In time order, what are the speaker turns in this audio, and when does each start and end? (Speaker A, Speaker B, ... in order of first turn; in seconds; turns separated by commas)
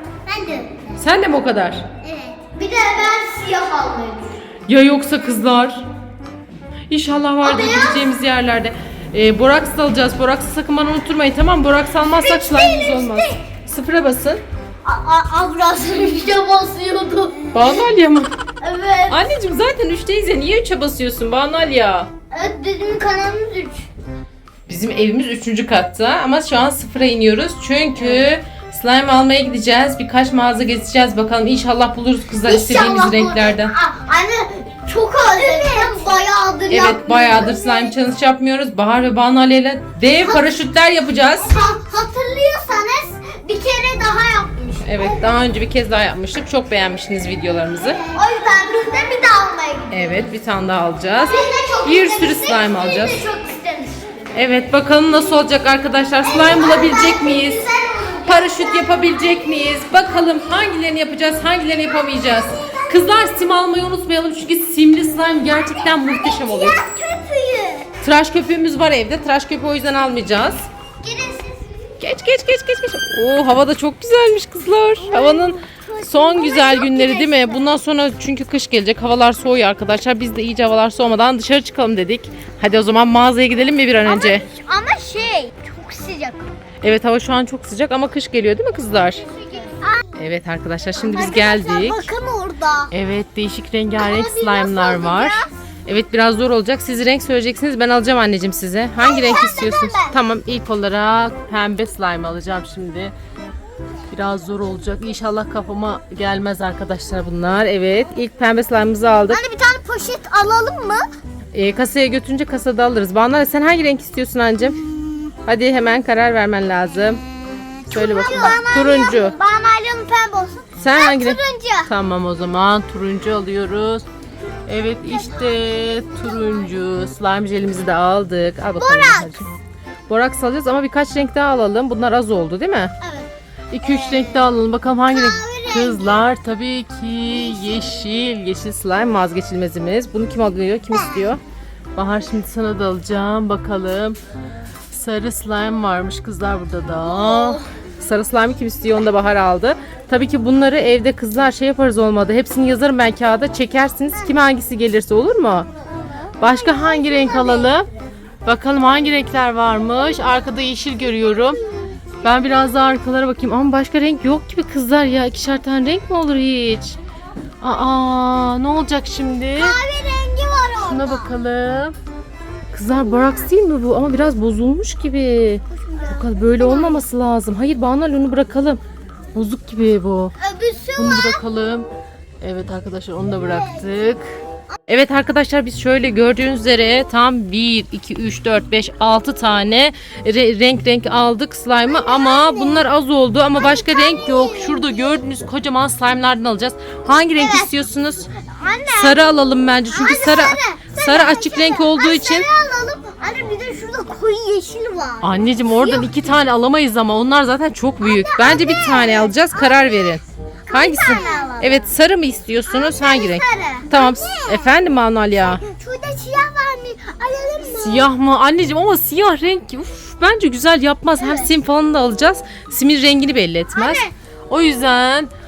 Speaker A: 0.2-0.8, Speaker B: 1.0-1.9, Speaker A: 2.0-4.4, Speaker B: 4.7-5.8, Speaker B: 6.9-14.4, Speaker A: 7.4-8.1, Speaker A: 12.2-13.4, Speaker A: 14.8-17.8, Speaker B: 17.5-18.3, Speaker A: 18.6-19.3, Speaker B: 19.1-22.1, Speaker A: 22.3-23.9, Speaker B: 24.7-33.7, Speaker A: 27.9-28.3, Speaker A: 32.4-37.9, Speaker B: 36.7-41.6, Speaker A: 40.2-40.5, Speaker A: 41.4-45.4, Speaker B: 44.8-48.0, Speaker A: 47.8-50.2, Speaker B: 49.9-53.2, Speaker A: 51.2-54.0, Speaker B: 54.3-57.6, Speaker A: 56.2-59.1, Speaker B: 58.2-66.8, Speaker A: 66.0-67.9, Speaker B: 68.0-70.6, Speaker A: 71.0-71.7, Speaker B: 72.0-84.5, Speaker A: 75.0-77.7, Speaker A: 84.0-86.5, Speaker B: 86.8-89.2, Speaker A: 89.2-90.2, Speaker B: 90.1-92.1, Speaker A: 91.0-92.9, Speaker B: 92.9-103.1, Speaker A: 94.0-95.5, Speaker A: 99.0-100.2, Speaker B: 104.1-109.4, Speaker A: 109.3-111.0, Speaker B: 111.5-114.8, Speaker B: 115.5-117.2, Speaker B: 117.9-119.3, Speaker A: 117.9-121.9, Speaker B: 120.8-124.0, Speaker B: 124.7-129.5, Speaker A: 128.8-129.4, Speaker B: 130.1-132.9, Speaker A: 133.0-133.3, Speaker B: 133.7-141.4, Speaker A: 133.8-134.4, Speaker A: 135.1-136.2, Speaker A: 137.6-137.8, Speaker B: 141.9-144.2, Speaker B: 144.9-155.7, Speaker A: 147.0-147.7, Speaker A: 155.9-157.7, Speaker B: 156.4-157.9, Speaker B: 158.4-161.6, Speaker B: 162.2-167.0, Speaker B: 167.6-169.8, Speaker A: 169.6-171.3, Speaker B: 170.8-171.9, Speaker B: 172.7-178.8, Speaker A: 175.7-177.0, Speaker B: 179.3-180.3, Speaker A: 180.4-181.4, Speaker B: 180.9-181.9, Speaker B: 182.4-184.2, Speaker B: 184.9-198.3, Speaker A: 191.9-192.8, Speaker A: 193.5-194.9, Speaker A: 197.3-197.7, Speaker A: 198.4-199.3, Speaker B: 198.9-202.5, Speaker A: 199.9-206.1, Speaker B: 205.2-215.6, Speaker A: 208.0-211.9, Speaker A: 212.7-214.7, Speaker A: 215.4-218.1, Speaker B: 217.7-225.3, Speaker A: 221.2-221.5, Speaker A: 223.7-224.1